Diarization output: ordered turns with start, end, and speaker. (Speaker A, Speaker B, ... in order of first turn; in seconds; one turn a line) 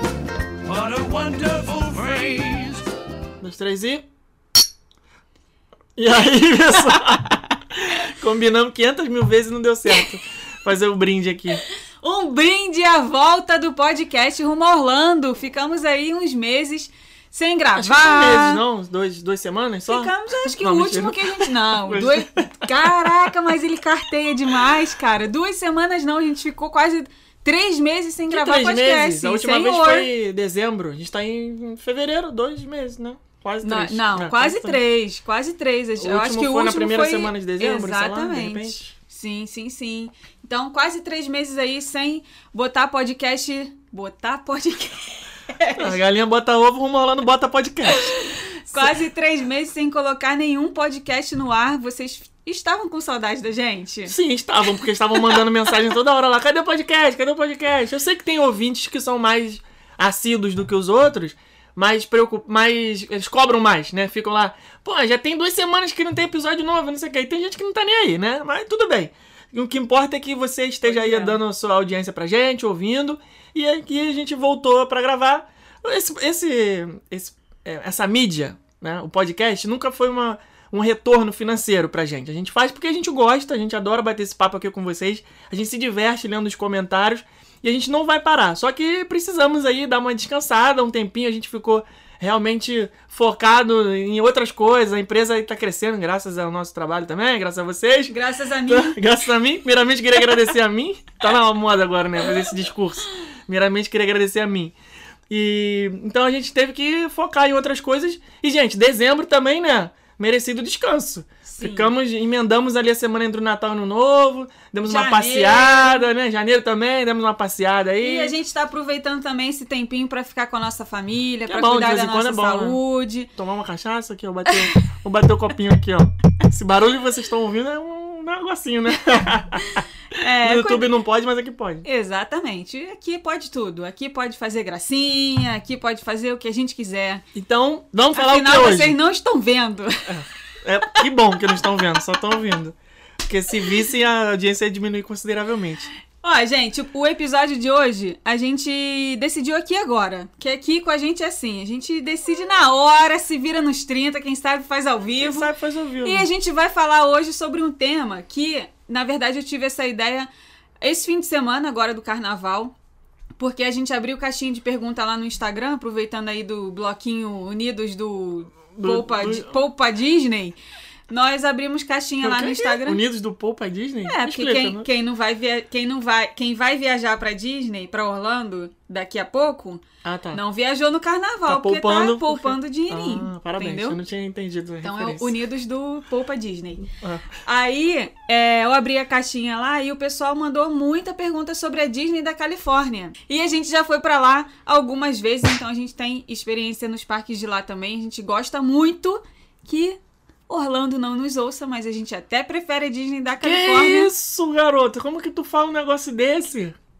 Speaker A: 0.6-2.8
Speaker B: 3.4-4.0
Speaker B: 6.0-11.6
Speaker C: 12.0-18.6
Speaker B: 17.8-23.3
Speaker C: 19.9-30.1
Speaker B: 28.3-34.8
Speaker C: 33.6-46.0
Speaker B: 36.0-38.9
Speaker B: 45.8-48.1
Speaker C: 48.0-54.2
Speaker B: 48.7-49.0
Speaker B: 54.1-104.8
Speaker C: 70.8-71.4
Speaker C: 98.1-99.0
Speaker B: 105.3-118.3
Speaker C: 111.5-111.9
Speaker C: 114.8-116.1
Speaker C: 118.0-123.3
Speaker B: 121.5-122.8
Speaker B: 123.3-129.8
Speaker C: 129.7-130.9
Speaker B: 130.4-131.8
Speaker C: 131.8-137.2
Speaker B: 137.3-139.0
Speaker C: 138.1-140.2
Speaker B: 140.1-145.9
Speaker C: 146.2-155.5
Speaker B: 155.2-156.3
Speaker C: 156.0-160.3
Speaker C: 160.8-162.8
Speaker C: 163.4-170.6
Speaker B: 168.8-169.5
Speaker C: 171.1-173.0
Speaker B: 172.2-174.8
Speaker C: 174.1-184.0
Speaker B: 180.0-180.4
Speaker B: 181.5-185.3
Speaker C: 184.8-204.1
Speaker B: 187.0-187.2
Speaker B: 203.4-206.8